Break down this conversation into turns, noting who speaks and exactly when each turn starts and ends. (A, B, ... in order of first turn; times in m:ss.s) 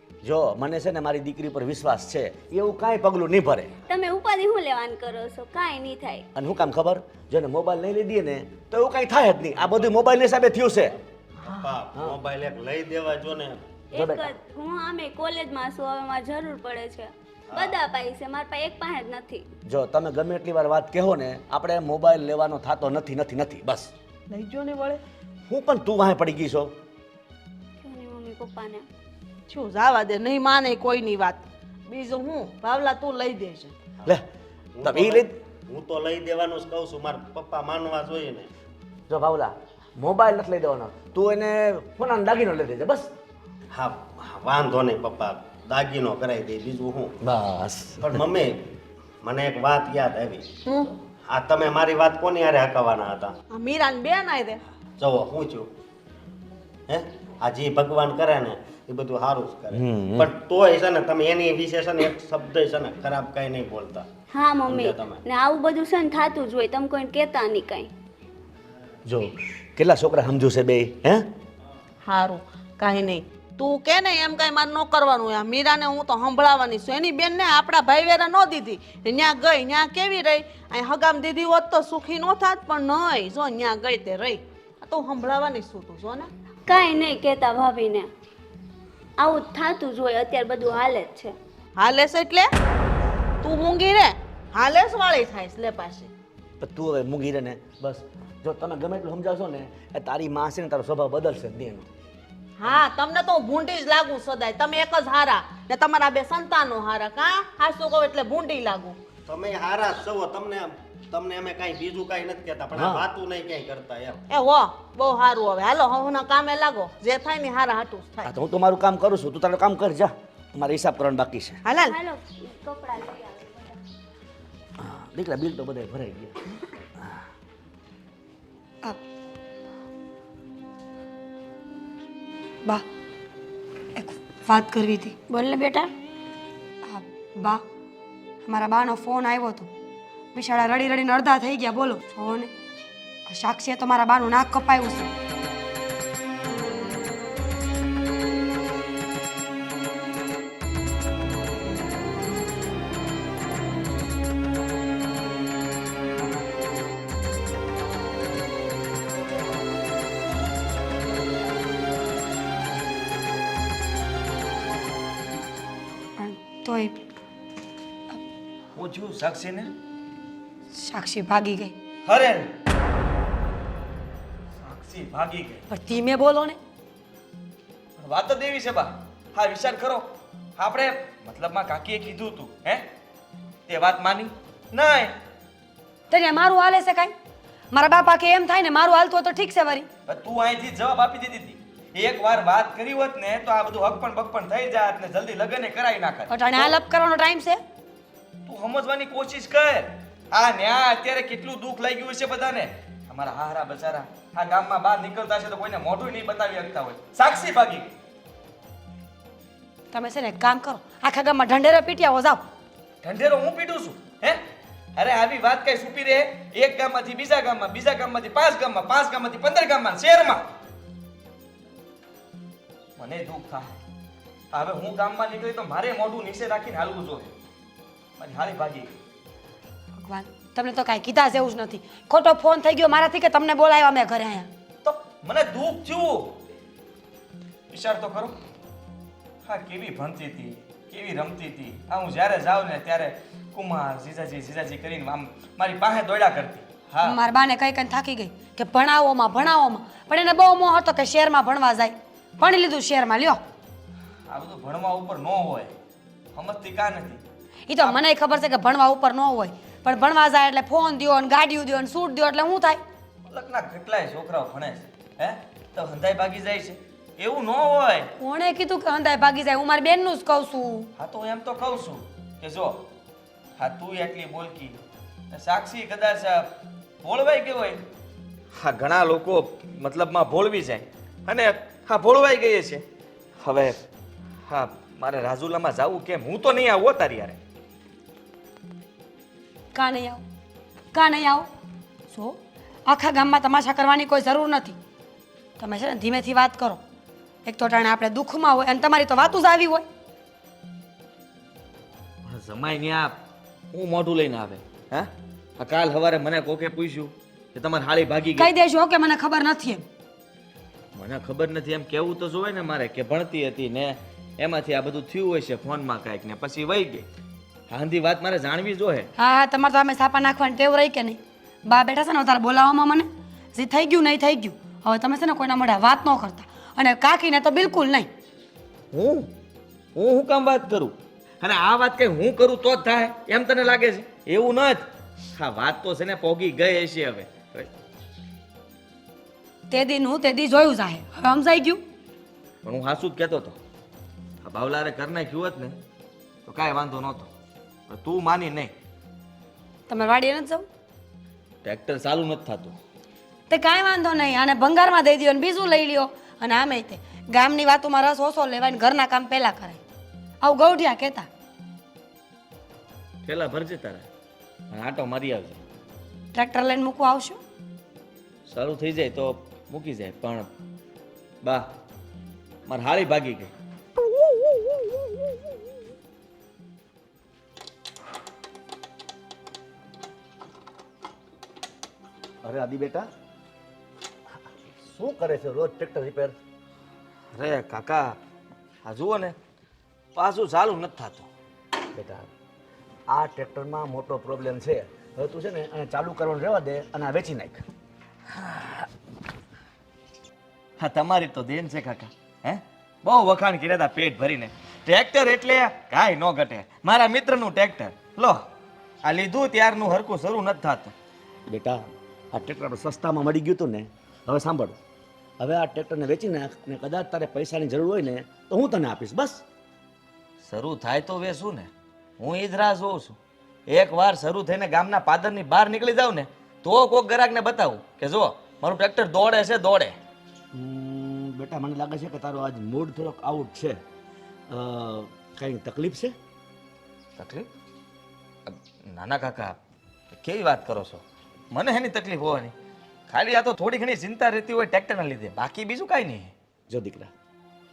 0:00.2-0:03.8 A
0:03.9-0:06.2 B
0:06.3-0:11.0 A
0:11.4-0:11.7 C
0:11.4-0:13.8 D
0:13.9-0:19.4 B
0:13.9-0:14.3 A
0:17.5-0:17.8 D
0:19.7-0:23.9 A
0:24.3-0:25.0 C
0:25.5-0:26.7 A
0:27.8-0:28.8 B
0:29.5-0:33.7 C
0:34.7-0:38.5 D
0:34.8-0:35.3 A
0:39.1-0:43.1 A
0:43.7-0:47.1 D
0:47.2-0:48.2 A
0:48.0-0:48.6 D
0:49.2-0:50.5 D
0:51.3-0:53.3 D
0:53.5-0:54.6 C
0:55.0-0:55.7 D
0:56.9-1:04.0 D
0:59.7-1:00.3 A
1:04.3-1:07.9 B
1:04.6-1:05.2 D
1:09.0-1:11.3 A
1:12.0-1:26.3 C
1:26.7-1:28.1 B
1:29.2-1:31.3 B
1:31.8-1:32.5 C
1:33.4-1:36.1 C
1:36.6-1:41.9 A
1:42.6-1:49.0 C
1:49.3-1:54.2 D
1:52.7-1:53.0 A
1:54.3-1:58.3 C
1:58.2-2:01.6 A
2:01.6-2:02.0 C
2:01.7-2:03.8 B
2:04.8-2:06.4 A
2:14.0-2:15.9 E
2:16.8-2:17.6 E
2:18.4-2:19.7 E
2:20.3-2:22.5 E
2:23.3-2:25.1 E
2:46.2-2:47.0 E
2:48.7-2:49.7 F
2:50.7-2:51.7 E
2:52.0-2:52.5 F
2:54.5-2:55.6 F
2:55.7-2:56.6 E
2:58.0-3:02.9 F
3:03.7-3:05.2 F
3:06.1-3:07.1 E
3:07.7-3:09.9 E
3:10.0-3:16.7 F
3:16.3-3:17.6 E
3:18.4-3:27.9 F
3:29.9-3:32.4 E
3:33.0-3:34.4 F
3:35.0-3:40.4 F
3:43.0-3:43.7 F
3:44.5-3:47.3 F
3:48.2-3:48.9 F
3:50.0-3:54.5 E
3:54.8-3:56.4 F
3:57.7-3:58.4 F
3:59.4-4:07.2 F
4:07.0-4:13.4 E
4:14.3-4:15.7 F
4:16.3-4:17.2 F
4:17.7-4:22.8 E
4:23.3-4:28.1 F
4:28.2-4:30.9 E
4:31.0-4:32.9 F
4:33.6-4:34.8 F
4:35.3-4:37.8 F
4:38.6-4:42.8 F
4:43.4-4:43.8 F
4:44.5-4:47.4 F
4:49.7-4:50.2 E
4:50.9-4:51.5 E
4:52.1-4:54.8 E
4:55.6-4:56.8 E
4:57.4-4:59.8 E
5:02.2-5:03.2 F
5:03.7-5:08.5 F
5:08.3-5:09.8 E
5:10.9-5:17.0 F
5:17.7-5:19.1 F
5:19.2-5:28.1 E
5:28.9-5:29.3 F
5:29.9-5:37.7 F
5:39.7-5:41.8 E
5:42.6-5:43.6 F
5:44.4-5:45.8 F
5:46.4-5:47.3 F
5:47.9-5:48.7 F
5:49.9-5:50.6 E
5:51.6-5:52.8 F
5:53.5-5:59.8 E
6:00.4-6:01.3 E
6:03.2-6:04.1 F
6:04.7-6:05.6 F
6:06.3-6:07.4 E
6:08.4-6:10.5 F
6:11.4-6:11.7 F
6:12.6-6:13.5 F
6:22.4-6:23.1 A
6:24.7-6:26.3 A
6:27.3-6:28.2 F
6:28.8-6:29.4 F
6:30.1-6:31.3 F
6:31.9-6:32.3 A
6:33.1-6:37.6 A
6:40.8-6:48.4 F
6:49.0-6:50.9 F
6:51.5-6:51.8 A
6:52.3-6:54.7 A
6:55.4-6:59.4 A
7:00.4-7:10.0 F
7:10.5-7:13.8 A
7:14.5-7:16.1 A
7:17.2-7:17.5 F
7:18.5-7:19.6 F
7:20.1-7:22.5 F
7:23.1-7:26.3 F
7:26.7-7:27.1 A